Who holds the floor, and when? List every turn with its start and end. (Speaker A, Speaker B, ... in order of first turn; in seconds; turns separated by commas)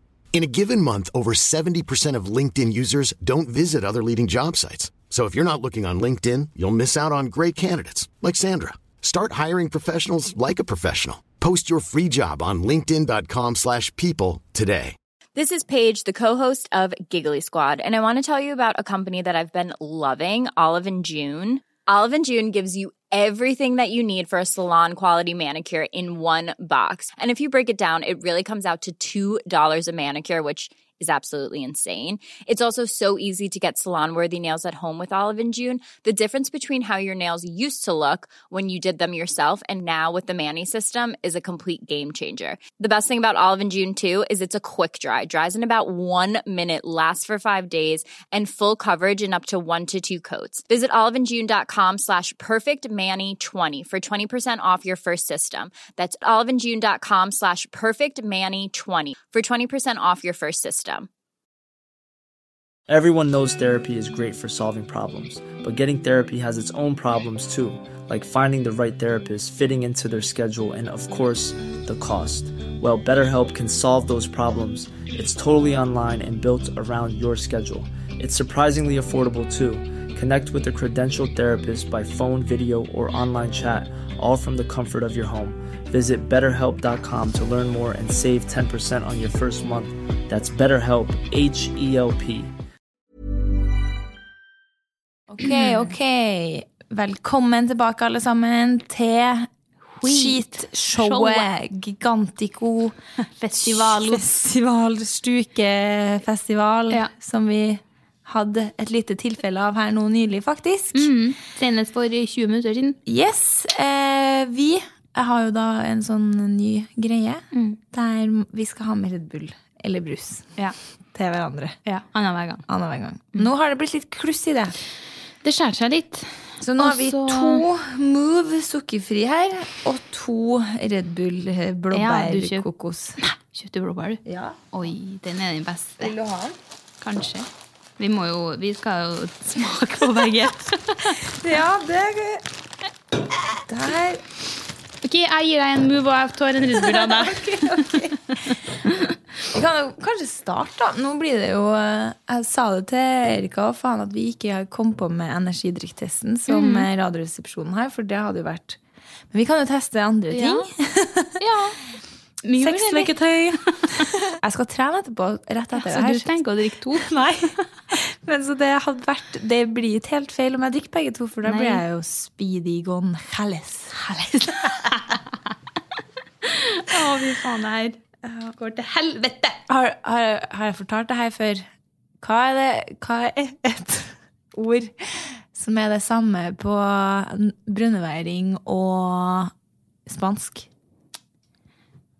Speaker A: 0.3-14.9, Speaker B: 15.3-61.1, Speaker C: 62.9-92.5, Speaker D: 95.3-99.5, Speaker E: 95.4-95.8, Speaker E: 100.0-101.5, Speaker D: 100.0-103.0, Speaker E: 103.2-104.2, Speaker D: 103.6-111.1, Speaker E: 110.9-113.0, Speaker D: 113.0-120.5, Speaker E: 117.5-117.8, Speaker D: 121.1-121.8, Speaker E: 121.8-122.6, Speaker D: 122.7-124.7, Speaker E: 125.4-127.6, Speaker D: 126.6-133.2, Speaker E: 131.9-132.7, Speaker E: 133.2-134.2, Speaker D: 134.2-134.6, Speaker E: 134.7-136.1, Speaker D: 136.0-136.6, Speaker E: 137.0-141.2, Speaker D: 141.2-142.4, Speaker D: 143.6-144.2, Speaker E: 145.0-149.1, Speaker D: 146.7-148.6, Speaker D: 149.5-158.8, Speaker E: 156.5-156.9, Speaker D: 159.3-161.4, Speaker E: 160.3-160.7, Speaker E: 161.4-161.8, Speaker E: 162.4-164.1, Speaker D: 162.6-163.6, Speaker D: 164.3-166.3, Speaker E: 165.7-167.1, Speaker D: 166.9-174.9, Speaker E: 171.4-171.8, Speaker E: 174.5-175.2, Speaker E: 176.4-178.0, Speaker D: 178.2-181.7, Speaker D: 182.2-189.5, Speaker D: 190.1-190.7